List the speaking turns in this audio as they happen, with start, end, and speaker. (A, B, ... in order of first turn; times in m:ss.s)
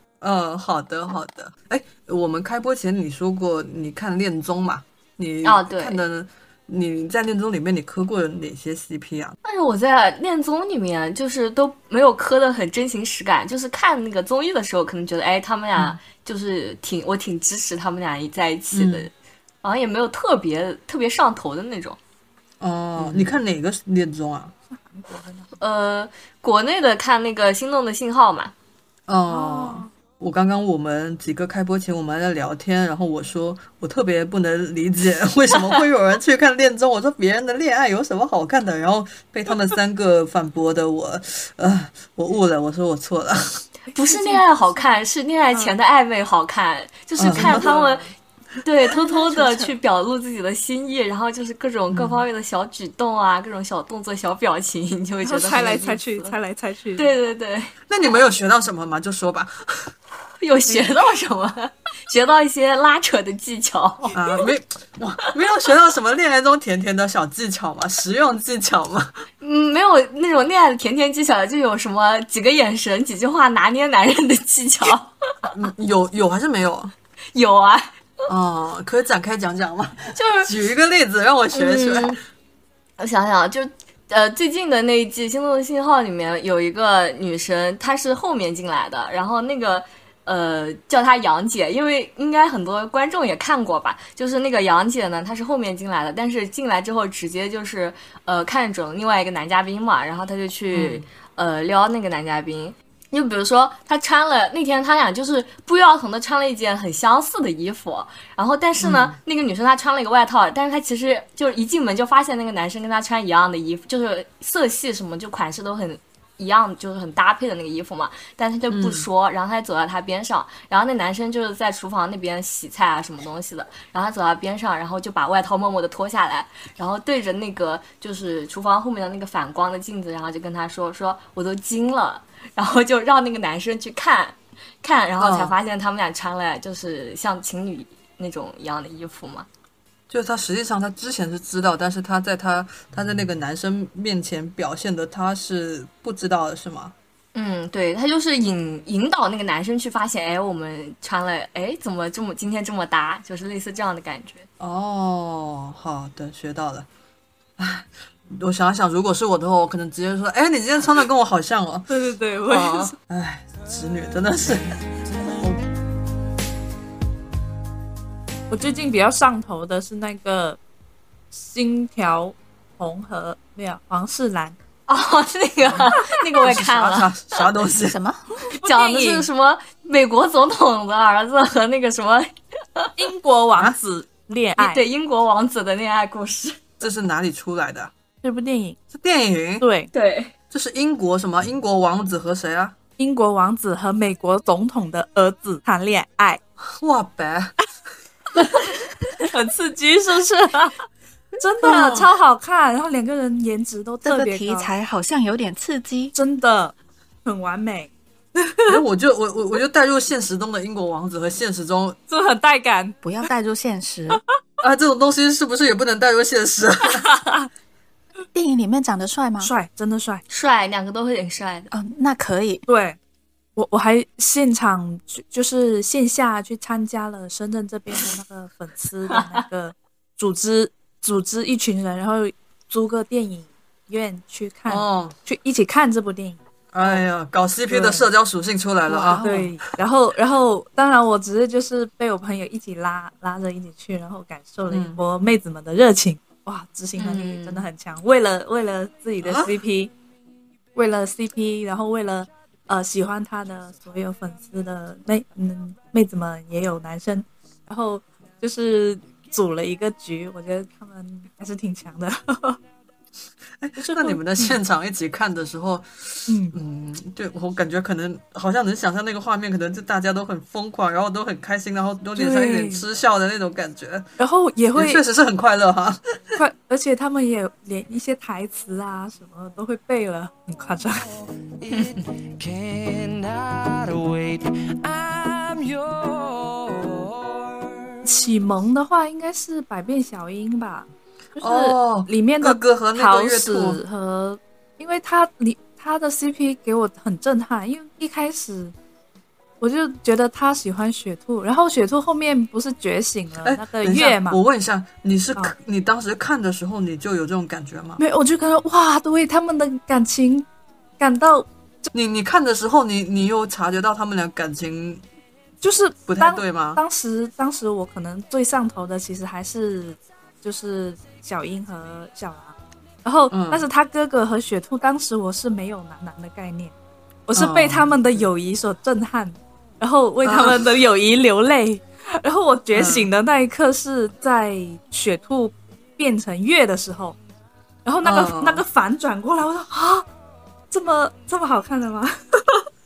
0:00.2-0:09.4 A
0:05.4-0:06.0 B
0:09.4-0:19.1 B
0:18.7-0:19.1 A
0:19.6-0:22.0 B
0:22.6-0:24.5 A
0:23.0-0:23.3 B
0:24.7-0:25.5 C
0:25.6-0:28.5 B
0:29.1-0:43.6 A
0:29.3-0:29.9 C
0:43.9-0:44.8 C
0:43.9-0:48.0 B
0:47.2-0:47.7 A
0:47.3-0:48.1 C
0:48.6-0:56.3 B
0:49.1-0:49.7 D
0:51.9-0:52.2 A
0:55.2-0:57.1 C
0:57.0-0:57.7 B
0:57.9-0:59.9 A
1:00.4-1:04.4 B
1:04.1-1:09.2 A
1:09.4-1:15.5 B
1:15.5-1:16.9 A
1:17.3-1:18.0 B
1:18.3-1:22.2 A
1:20.1-1:20.5 B
1:21.5-1:22.2 B
1:23.0-2:19.5 B
1:40.7-1:41.0 A
1:48.8-1:49.2 A
1:58.7-1:59.1 A
2:15.2-2:15.5 A
2:20.1-2:26.9 A
2:27.3-2:34.5 B
2:34.6-2:36.9 A
2:37.6-2:41.9 A
2:41.9-2:42.9 C
2:42.4-2:45.6 A
2:48.5-2:50.6 C
2:51.3-2:54.5 C
2:54.9-2:57.5 B
2:55.6-2:58.0 A
2:57.8-2:58.2 D
2:58.5-2:59.3 C
2:58.6-3:02.9 B
3:03.0-3:04.8 C
3:04.6-3:06.6 B
3:06.8-3:07.9 A
3:08.2-3:08.8 C
3:08.9-3:09.6 A
3:09.6-3:09.9 C
3:09.9-3:10.3 B
3:10.5-3:12.8 A
3:13.0-3:16.4 C
3:16.8-3:17.6 A
3:19.2-3:20.7 C
3:21.4-3:24.7 C
3:21.6-3:22.1 A
3:24.0-3:26.1 D
3:26.1-3:26.7 C
3:27.2-3:28.8 C
3:28.7-3:32.0 A
3:32.1-3:33.0 C
3:33.0-3:34.2 D
3:34.6-3:37.1 A
3:37.1-3:37.4 C
3:38.3-3:39.5 D
3:39.4-3:40.2 C
3:40.3-3:41.7 B
3:41.7-3:42.6 D
3:42.7-3:43.0 C
3:43.6-3:57.0 C
3:54.7-3:55.1 A
3:56.7-3:59.2 A
3:57.7-3:58.1 C
3:58.9-3:59.5 D
3:59.2-4:09.9 C
4:04.7-4:05.0 A
4:07.0-4:07.6 B
4:09.2-4:09.5 A
4:10.7-4:22.6 C
4:23.6-4:34.1 A
4:23.8-4:24.6 C
4:26.3-4:26.6 C
4:32.1-4:32.8 C
4:34.2-4:35.0 C
4:34.7-4:36.4 A
4:36.4-4:41.1 C
4:41.6-4:47.4 E
4:48.0-4:58.7 C
4:51.4-4:53.8 A
4:59.6-5:04.4 C
5:03.4-5:08.0 A
5:08.0-5:10.4 C
5:11.0-5:11.9 C
5:11.9-5:15.0 A
5:15.6-5:26.7 C
5:16.1-5:16.8 A
5:23.3-5:23.6 A
5:27.3-5:37.2 C
5:27.3-5:28.3 A
5:30.2-5:30.6 A
5:32.7-5:33.1 A
5:37.8-5:40.0 C
5:38.0-5:38.6 A
5:40.7-5:42.6 C